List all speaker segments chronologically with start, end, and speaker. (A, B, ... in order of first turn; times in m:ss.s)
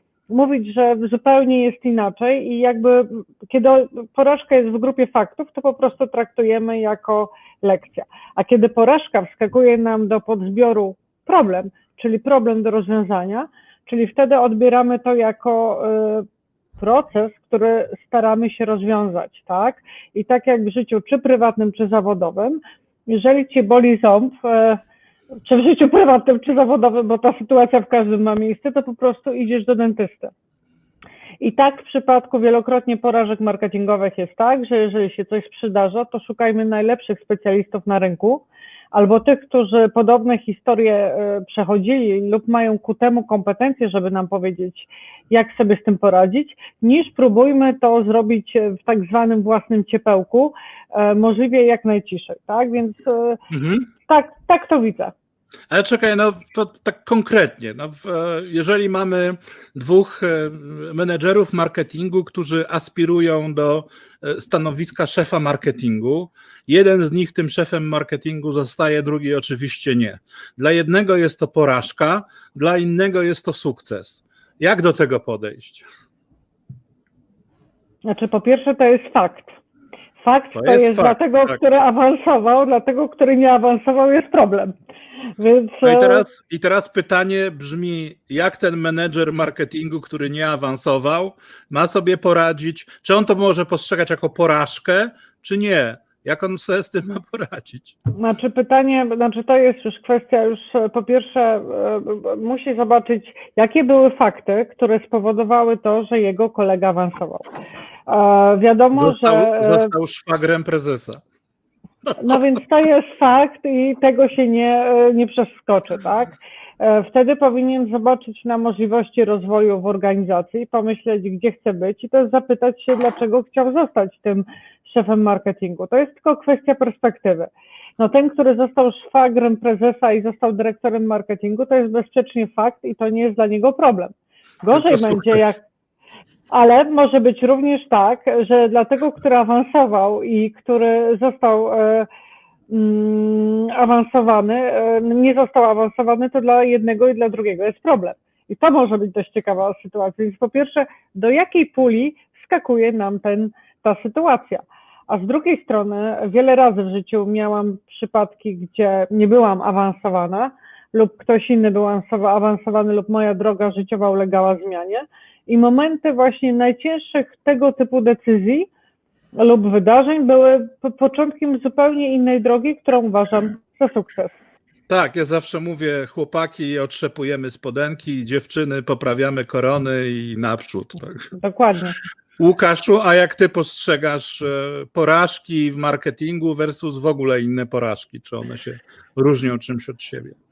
0:00.3-0:16.2 A
0:16.8-0:24.8 A
0:25.4-0:30.3 A
0:31.4-0:53.4 A
0:53.5-0:53.9 B
0:54.1-0:55.1 A
0:55.7-1:15.8 B
1:18.0-1:19.6 A
1:20.2-1:24.7 A
1:20.6-1:21.6 B
1:25.4-1:26.2 A
1:25.8-1:38.0 B
1:38.2-1:47.5 A
1:48.1-1:49.9 A
1:48.9-1:51.2 B
1:52.2-2:15.6 A
2:14.7-2:15.4 B
2:16.5-2:22.1 A
2:22.7-2:48.7 A
2:49.4-2:54.4 A
2:54.9-3:01.3 B
3:01.4-3:02.0 A
3:02.4-3:10.4 B